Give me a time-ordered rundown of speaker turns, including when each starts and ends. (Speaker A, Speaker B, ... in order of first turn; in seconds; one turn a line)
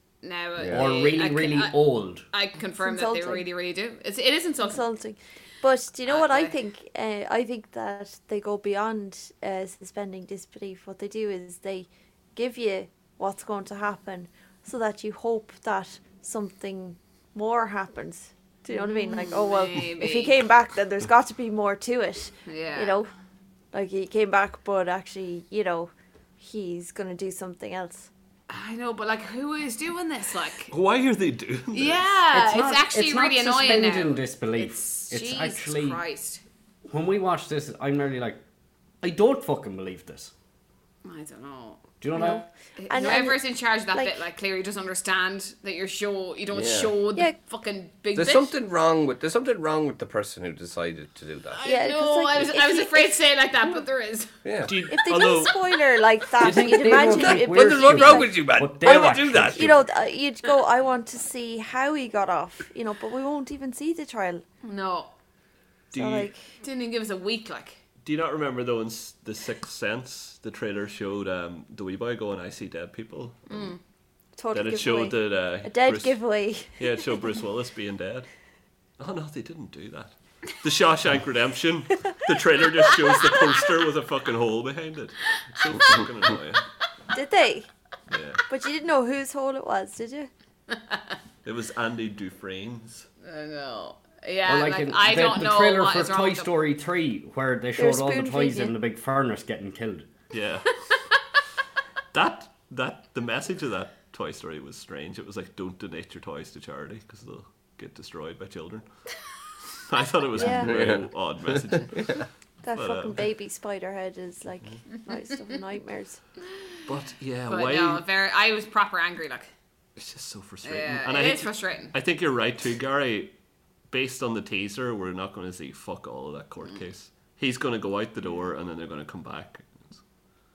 Speaker A: 0.2-1.8
Speaker B: 0.6-0.9
Speaker C: 0.7-2.2
Speaker A: 2.3-4.8
Speaker D: 2.8-3.5
Speaker D: 4.6-23.1
Speaker A: 6.0-6.5
Speaker A: 18.7-20.4
Speaker A: 22.4-22.9
Speaker D: 23.7-28.1
Speaker A: 28.5-30.7
Speaker E: 30.7-32.1
Speaker A: 31.7-36.4
Speaker C: 32.3-36.0
Speaker C: 36.9-38.4
Speaker C: 39.0-40.3
Speaker A: 41.0-48.5
Speaker C: 42.0-42.4
Speaker D: 42.1-44.2
Speaker B: 46.5-47.0
Speaker B: 48.1-51.6
Speaker A: 51.5-54.3
Speaker D: 51.6-53.1
Speaker B: 54.4-54.8
Speaker E: 54.6-55.7
Speaker D: 54.9-64.4
Speaker C: 56.4-59.8
Speaker B: 56.8-59.8
Speaker A: 64.6-65.1
Speaker E: 65.9-66.3
Speaker D: 65.9-66.4
Speaker A: 66.6-67.8
Speaker E: 68.0-73.7
Speaker A: 73.5-73.8
Speaker D: 74.4-77.0
Speaker E: 74.5-76.2
Speaker E: 76.8-78.3
Speaker E: 79.0-86.6
Speaker D: 87.1-87.7
Speaker E: 88.1-88.4
Speaker D: 88.5-90.3
Speaker E: 91.4-93.1
Speaker A: 93.2-96.5
Speaker C: 94.5-100.1
Speaker D: 97.8-98.7
Speaker E: 100.3-100.9
Speaker E: 102.1-108.8
Speaker E: 109.8-113.2
Speaker D: 110.3-110.7
Speaker B: 110.5-112.2
Speaker D: 112.6-116.2
Speaker E: 116.8-118.0
Speaker A: 117.5-119.5
Speaker E: 120.0-123.3
Speaker A: 120.6-121.9
Speaker E: 123.9-130.0